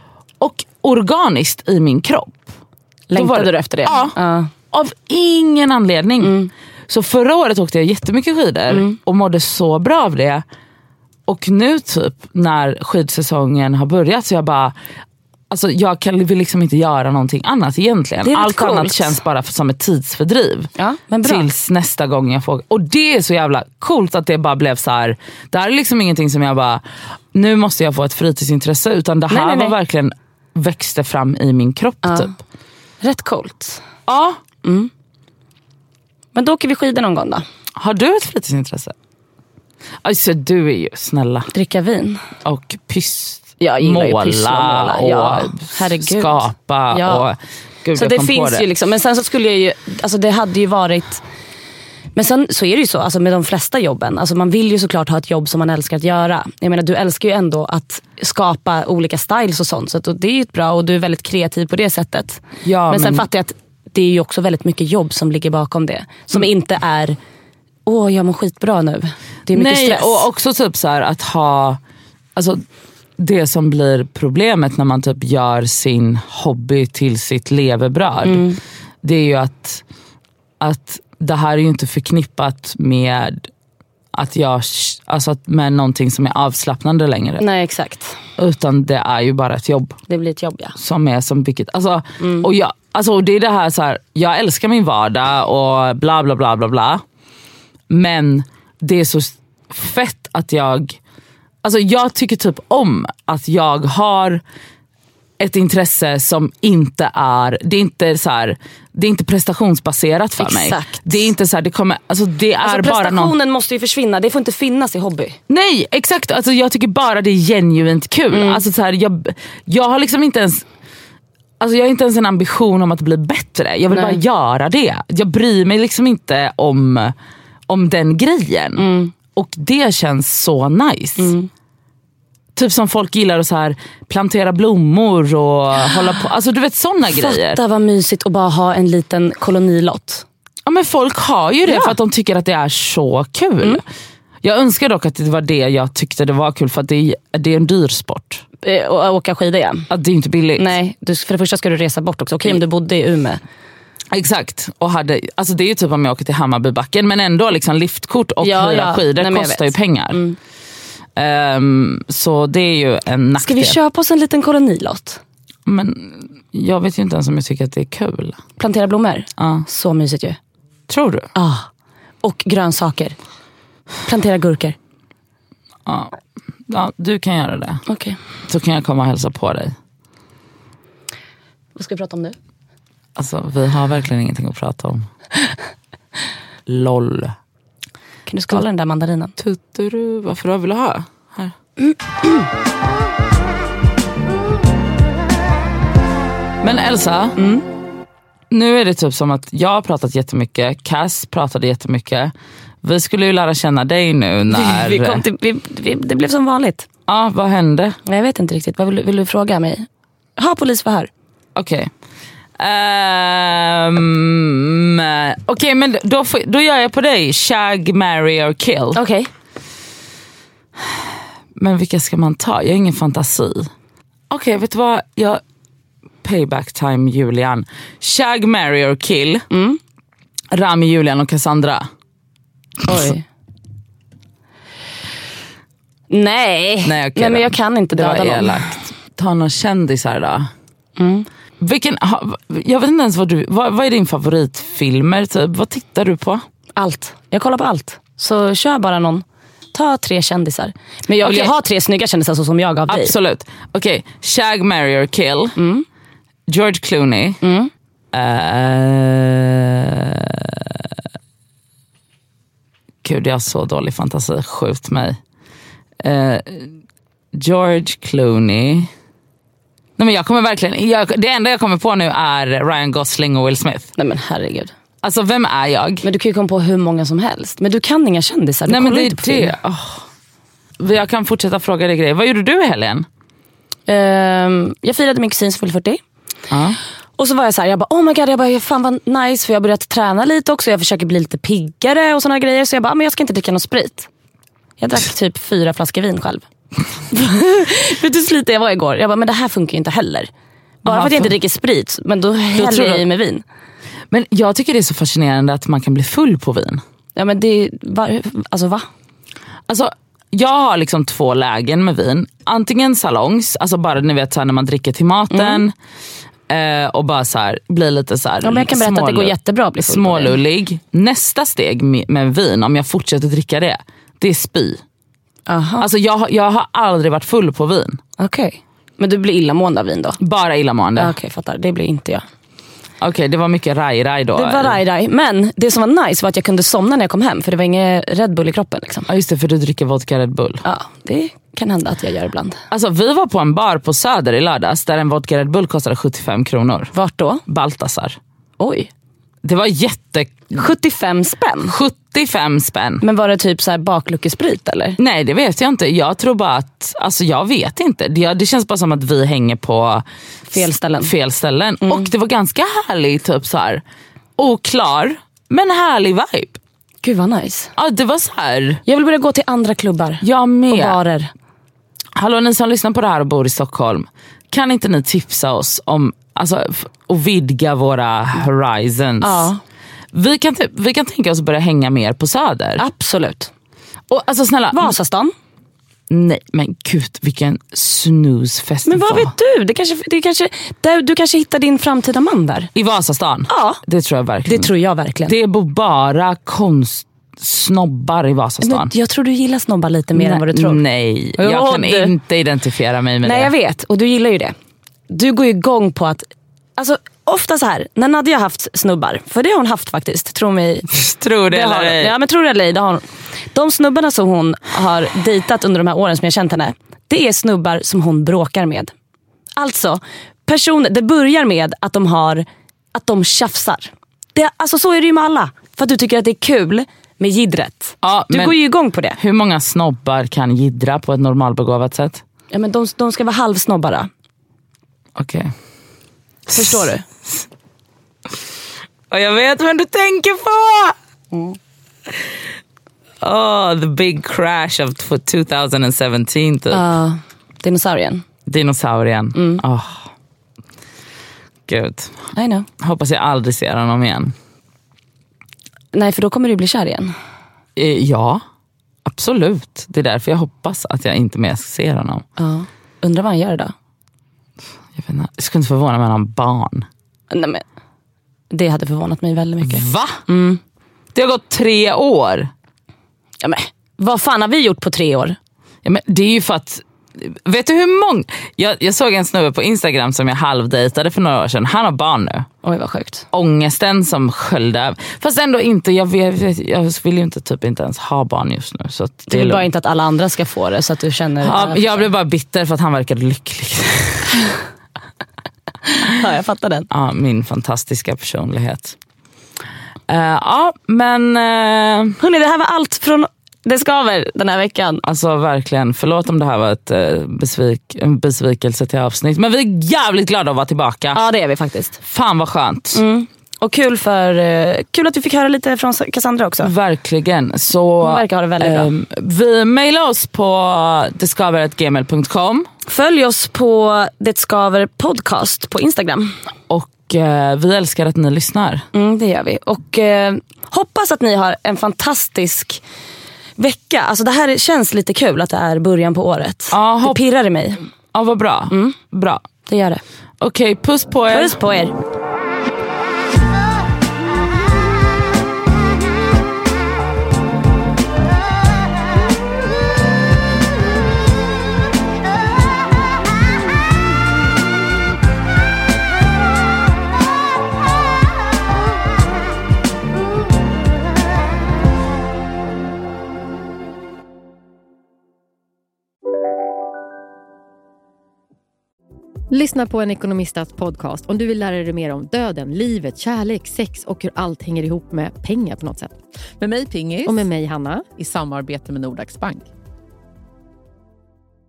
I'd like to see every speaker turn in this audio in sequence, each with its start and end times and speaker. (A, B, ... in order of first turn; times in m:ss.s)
0:00.4-0:02.5 A
0:03.1-0:04.5 B
0:03.1-0:04.1 A
0:04.7-0:06.4 A
0:06.2-0:06.5 B
0:06.9-0:10.4 A
0:08.7-0:09.0 B
0:11.3-0:14.7 A
0:15.5-0:20.7 A
0:18.2-0:19.2 B
0:20.8-0:21.5 B
0:21.2-0:26.8 A
0:27.3-0:32.3 A
0:29.3-0:29.7 B
0:32.0-0:32.3 B
0:33.0-0:33.8 B
0:34.1-0:34.4 A
0:34.6-0:34.9 B
0:36.3-0:37.4 B
0:37.8-0:38.9 A
0:40.0-0:41.5 A
0:41.5-0:42.2 B
0:42.4-0:48.6 A
0:43.6-0:47.2 B
0:47.9-0:51.2 B
0:52.1-1:07.2 B
1:02.6-1:03.2 A
1:07.8-1:10.2 B
1:09.5-1:11.8 A
1:12.4-1:12.6 A
1:13.2-1:18.4 A
1:18.2-1:18.6 B
1:19.0-1:19.8 A
1:20.6-1:23.5 A
1:24.1-1:27.4 A
1:27.4-1:28.2 B
1:28.4-1:30.0 A
1:30.1-1:30.8 B
1:30.8-1:37.0 A
1:32.2-1:32.5 B
1:37.9-1:41.0 A
1:41.6-1:44.4 A
1:45.4-1:53.3 A
1:50.4-1:51.1 B
1:52.6-1:55.4 B
1:55.5-2:00.6 A
1:58.3-1:58.6 B
2:01.6-2:07.1 A
2:03.9-2:04.2 B
2:07.7-2:11.3 A
2:08.8-2:09.1 B
2:11.2-2:11.5 B
2:12.6-2:17.6 A
2:17.1-2:20.2 B
2:20.6-2:23.8 A
2:21.6-2:22.0 B
2:24.4-2:28.4 A
2:28.6-2:29.9 B
2:29.9-2:30.7 A
2:30.6-2:33.4 B
2:34.1-2:40.2 A
2:38.4-2:40.4 B
2:41.2-2:43.8 A
2:43.4-2:45.2 B
2:45.6-2:48.4 A
2:48.6-2:50.4 B
2:49.4-2:49.6 A
2:50.9-2:51.3 A
2:51.3-2:51.7 B
2:52.2-2:53.2 B
2:54.0-2:54.8 B
2:55.8-2:56.1 A
2:56.7-2:57.8 A
2:57.9-2:58.2 B
2:58.5-2:59.7 A
3:01.8-3:02.4 B
3:03.2-3:05.1 A
3:06.7-3:07.3 A
3:08.3-3:09.3 B
3:09.4-3:11.5 A
3:16.6-3:17.4 A
3:17.4-3:17.6 B
3:18.5-3:25.2 A
3:24.5-3:26.8 B
3:27.1-3:28.0 A
3:28.0-3:29.8 B
3:30.4-3:31.1 B
3:31.6-3:31.9 A
3:32.6-3:39.0 A
3:38.9-3:39.3 B
3:41.6-3:43.7 A
3:44.3-3:45.4 A
3:46.2-3:49.4 A
3:49.5-3:49.8 B
3:50.5-3:51.9 A
3:52.8-3:53.2 B
3:56.1-3:58.7 B
3:56.8-4:00.5 A
4:01.0-4:01.3 B
4:01.6-4:06.4 A
4:06.8-4:13.1 B
4:11.2-4:11.5 A
4:12.9-4:15.6 A
4:15.6-4:15.8 B
4:16.5-4:17.4 A
4:17.4-4:17.7 B
4:18.1-4:20.9 A
4:23.0-4:25.2 A
4:26.0-4:26.7 A
4:27.3-4:28.9 A
4:30.0-4:33.9 A
4:34.0-4:34.7 B
4:35.0-4:36.0 A
4:36.0-4:39.5 B
4:38.7-4:40.0 A
4:40.8-4:43.0 A
4:43.9-4:46.0 B
4:46.5-4:46.8 A
4:47.2-4:54.1 B
4:54.8-4:56.4 B
4:57.1-5:00.3 B
5:00.8-5:03.4 B
5:00.8-5:01.3 A
5:02.5-5:03.0 A
5:04.1-5:06.8 A
5:07.2-5:08.9 B
5:09.7-5:15.7 A
5:15.3-5:15.6 B
5:16.5-5:24.8 A
5:18.4-5:20.4 B
5:25.5-5:25.9 B
5:25.8-5:28.0 A
5:28.2-5:30.2 B
5:30.2-5:31.1 A
5:31.0-5:32.2 B
5:33.0-5:34.8 A
5:34.3-5:39.1 B
5:39.1-5:40.6 A
5:40.6-5:42.6 B
5:42.7-5:46.9 A
5:46.9-5:47.4 B
5:47.5-5:48.2 A
5:48.6-5:48.9 B
5:49.4-5:50.7 A
5:50.5-5:51.7 B
5:51.6-5:53.0 A
5:53.0-5:55.0 B
5:55.0-6:00.0 A
6:00.5-6:01.1 B
6:00.5-6:03.8 A
6:01.8-6:02.1 B
6:04.4-6:06.6 A
6:07.0-6:07.7 B
6:07.8-6:08.8 A
6:08.8-6:11.3 B
6:10.2-6:11.0 A
6:12.2-6:19.5 A
6:19.2-6:19.6 B
6:20.1-6:22.8 A
6:22.8-6:23.5 B
6:24.1-6:24.9 A
6:24.7-6:25.3 B
6:26.1-6:29.3 A
6:28.8-6:32.7 B
6:32.7-6:34.7 A
6:33.5-6:33.8 B
6:34.5-6:35.3 B
6:35.3-6:38.9 A
6:38.6-6:40.8 B
6:40.1-6:43.5 A
6:41.4-6:42.1 B
6:43.2-6:44.5 B
6:45.1-6:46.2 B
6:46.8-6:50.9 B
6:50.9-6:52.1 A
6:51.5-6:58.9 B
6:59.6-7:09.2 B
7:08.0-7:08.6 A
7:09.2-7:12.2 A
7:12.5-7:14.1 B
7:15.2-7:15.5 A
7:16.5-7:16.8 A
7:16.5-7:17.0 B
7:19.1-7:21.0 A
7:23.2-7:26.8 A
7:26.7-7:28.2 B
7:28.4-7:30.1 A
7:29.3-7:29.6 B
7:31.7-7:32.3 A
7:32.3-7:32.7 B
7:32.8-7:34.3 A
7:35.9-7:37.1 B
7:37.8-7:38.4 A
7:39.0-7:42.2 A
7:42.4-7:43.7 B
7:45.0-7:46.9 A
7:47.3-7:47.6 B
7:48.5-7:50.6 B
7:49.6-7:50.2 A
7:51.1-7:52.5 A
7:53.4-7:55.4 B
7:55.8-8:02.5 A
8:02.6-8:03.2 B
8:03.3-8:09.7 A
8:09.3-8:12.1 B
8:11.4-8:14.4 A
8:15.9-8:16.9 B
8:16.9-8:18.9 A
8:20.1-8:22.2 A
8:22.2-8:25.0 B
8:25.0-8:31.2 A
8:31.1-8:32.0 B
8:32.0-8:33.0 A
8:32.9-8:36.7 B
8:36.6-8:42.7 A
8:38.0-8:38.9 B
8:42.9-8:46.3 B
8:46.7-8:48.8 A
8:48.9-8:52.8 B
8:53.6-8:57.8 B
8:56.7-8:57.2 A
8:58.1-8:59.5 A
8:58.7-8:59.0 B
8:59.6-9:00.0 B
9:00.4-9:01.6 A
9:01.3-9:01.9 B
9:29.5-9:36.2 C
9:36.6-9:37.4 D
9:37.2-9:38.0 C
9:38.1-9:39.7 D